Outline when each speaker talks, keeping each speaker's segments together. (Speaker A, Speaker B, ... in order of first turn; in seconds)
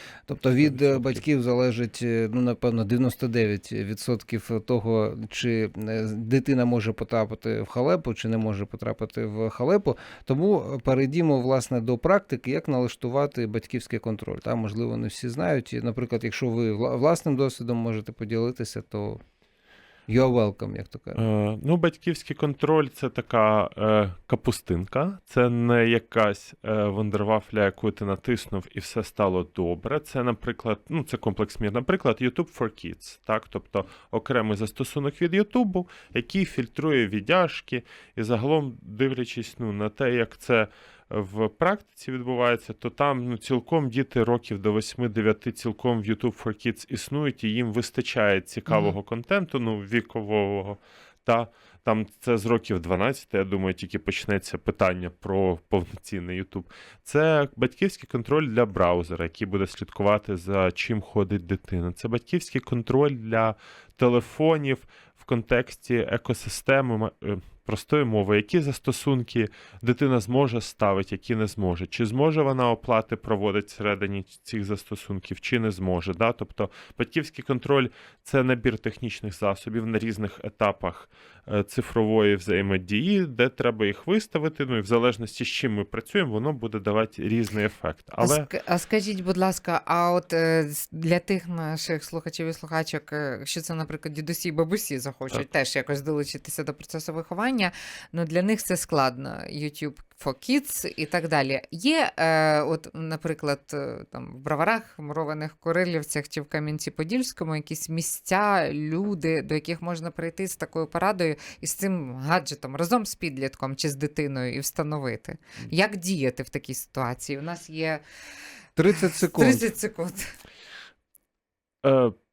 Speaker A: 0.3-19.2, 20.1-21.2, 118.8-119.7
Speaker B: 0.6-1.2, 21.1-88.5, 121.8-122.2
Speaker C: 48.7-49.0, 88.2-118.0, 118.9-120.3